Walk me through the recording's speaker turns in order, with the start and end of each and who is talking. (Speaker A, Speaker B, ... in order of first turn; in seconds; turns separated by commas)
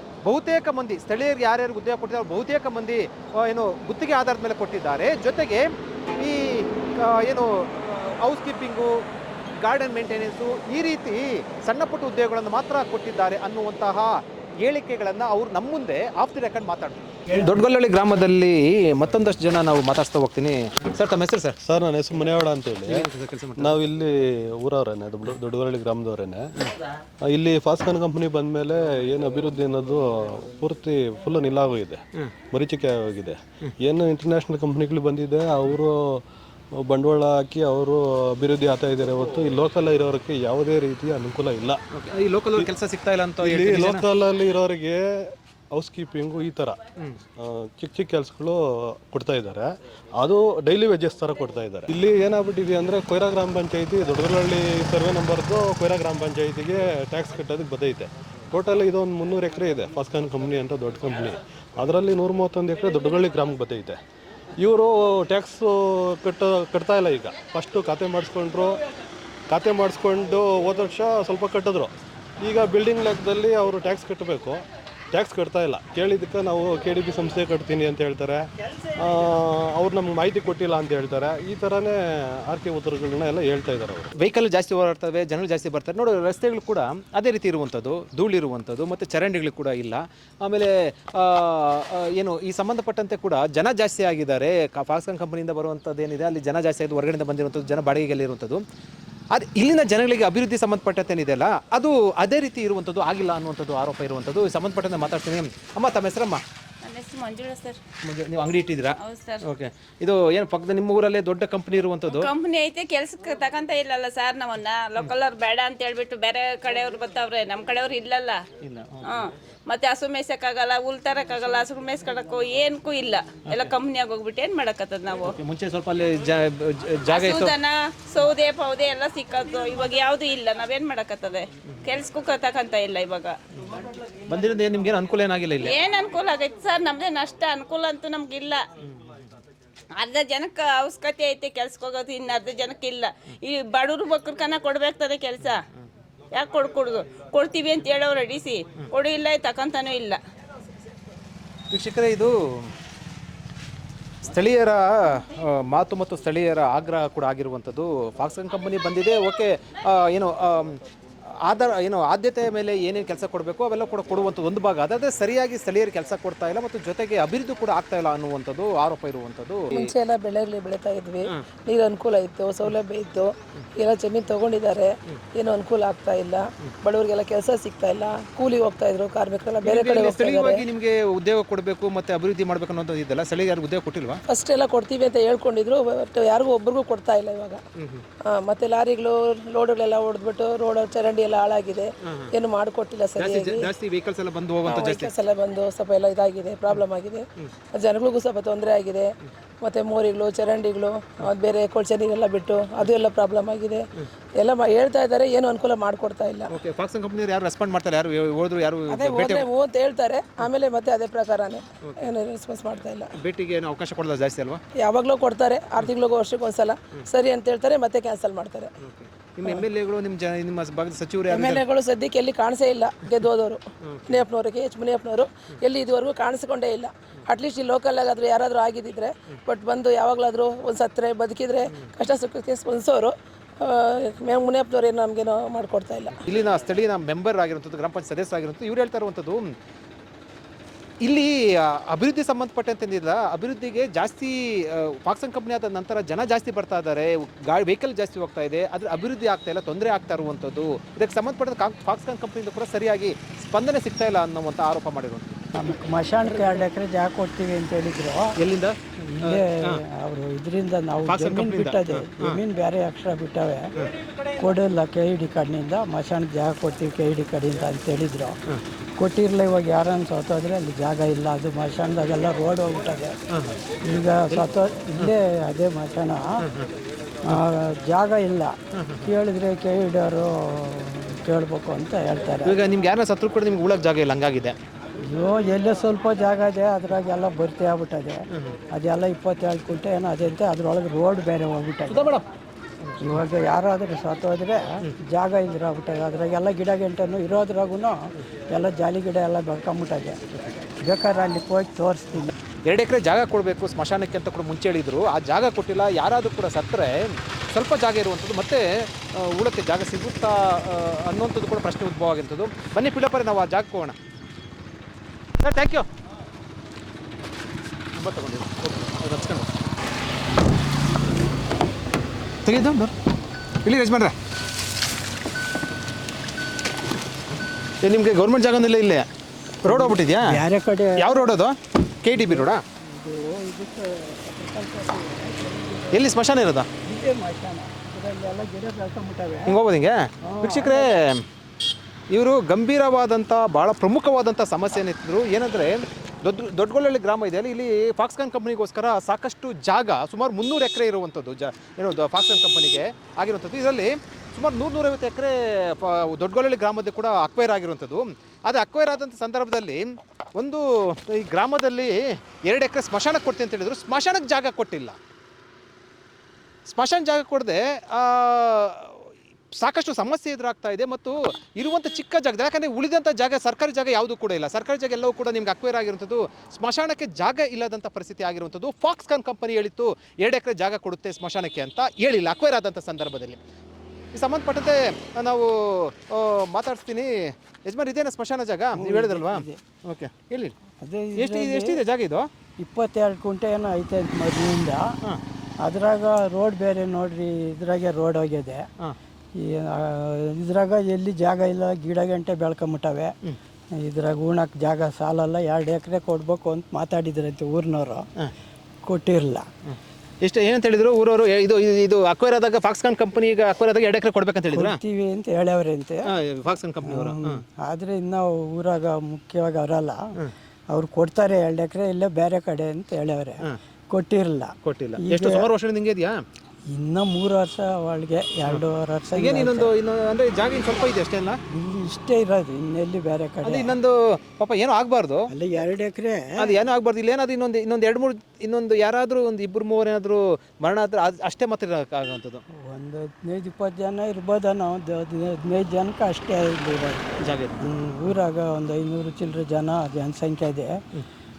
Speaker A: 0.2-21.6, Speaker B: 21.6-23.1, Speaker A: 22.9-23.8, Speaker B: 23.6-26.5, Speaker B: 27.2-41.8, Speaker A: 41.9-44.1, Speaker B: 43.4-46.8, Speaker B: 47.4-64.0, Speaker B: 64.6-68.8, Speaker B: 69.5-84.1, Speaker A: 84.2-98.6, Speaker A: 99.3-106.4, Speaker C: 106.8-107.8, Speaker A: 108.0-112.3, Speaker C: 109.0-109.5, Speaker C: 112.1-118.4, Speaker A: 118.6-119.1, Speaker C: 119.0-125.4, Speaker A: 125.2-127.5, Speaker C: 127.1-133.4, Speaker A: 133.6-135.8, Speaker C: 135.6-138.6, Speaker C: 140.0-145.6, Speaker C: 146.3-150.2, Speaker A: 151.7-152.7, Speaker A: 154.2-169.9, Speaker D: 169.7-180.6, Speaker A: 179.6-184.2, Speaker D: 184.3-187.6, Speaker A: 187.8-188.0, Speaker D: 188.3-193.7, Speaker A: 192.0-192.3, Speaker A: 193.2-195.1, Speaker D: 194.7-203.8, Speaker D: 204.4-206.5, Speaker A: 206.5-209.5, Speaker D: 208.9-213.1, Speaker A: 211.8-212.1, Speaker A: 213.2-214.6, Speaker D: 214.8-218.7, Speaker A: 218.8-221.7, Speaker D: 221.3-236.2, Speaker A: 223.8-224.2, Speaker A: 236.2-239.5, Speaker A: 241.0-255.4, Speaker E: 255.5-258.4, Speaker A: 258.4-259.8, Speaker E: 259.0-263.7, Speaker A: 261.1-262.4, Speaker E: 264.4-268.4, Speaker E: 269.0-273.2, Speaker A: 273.3-273.6, Speaker E: 273.8-276.4, Speaker A: 274.3-275.1, Speaker A: 276.4-276.7, Speaker E: 277.3-282.6, Speaker A: 278.7-279.1, Speaker A: 282.4-284.6, Speaker E: 285.1-292.1, Speaker A: 288.3-288.6, Speaker A: 291.9-292.2, Speaker E: 293.0-300.2, Speaker E: 300.8-302.3, Speaker A: 302.7-314.0, Speaker A: 315.4-315.9, Speaker A: 317.9-319.6, Speaker A: 322.4-322.9, Speaker A: 323.6-324.1, Speaker A: 327.8-329.1, Speaker A: 329.6-330.4, Speaker E: 329.6-331.3, Speaker A: 331.0-332.6, Speaker E: 332.1-336.1, Speaker A: 335.9-336.7, Speaker E: 336.8-339.6, Speaker A: 339.5-341.2, Speaker E: 340.2-340.9, Speaker A: 342.1-365.0, Speaker A: 366.7-383.4, Speaker A: 384.1-390.6, Speaker E: 388.8-389.6, Speaker E: 390.8-391.8, Speaker A: 391.1-392.3, Speaker E: 392.6-394.9, Speaker E: 395.6-398.7, Speaker E: 399.4-403.1, Speaker E: 403.8-408.1, Speaker E: 408.9-409.5, Speaker A: 409.6-414.8, Speaker E: 414.5-416.1, Speaker A: 416.1-417.4, Speaker E: 416.9-420.1, Speaker E: 420.7-425.5, Speaker A: 424.6-426.2, Speaker E: 426.7-429.7, Speaker A: 429.1-431.4, Speaker E: 431.5-433.8, Speaker A: 433.4-435.3, Speaker E: 435.3-436.5, Speaker A: 436.4-442.4, Speaker E: 442.5-450.8, Speaker A: 447.2-447.7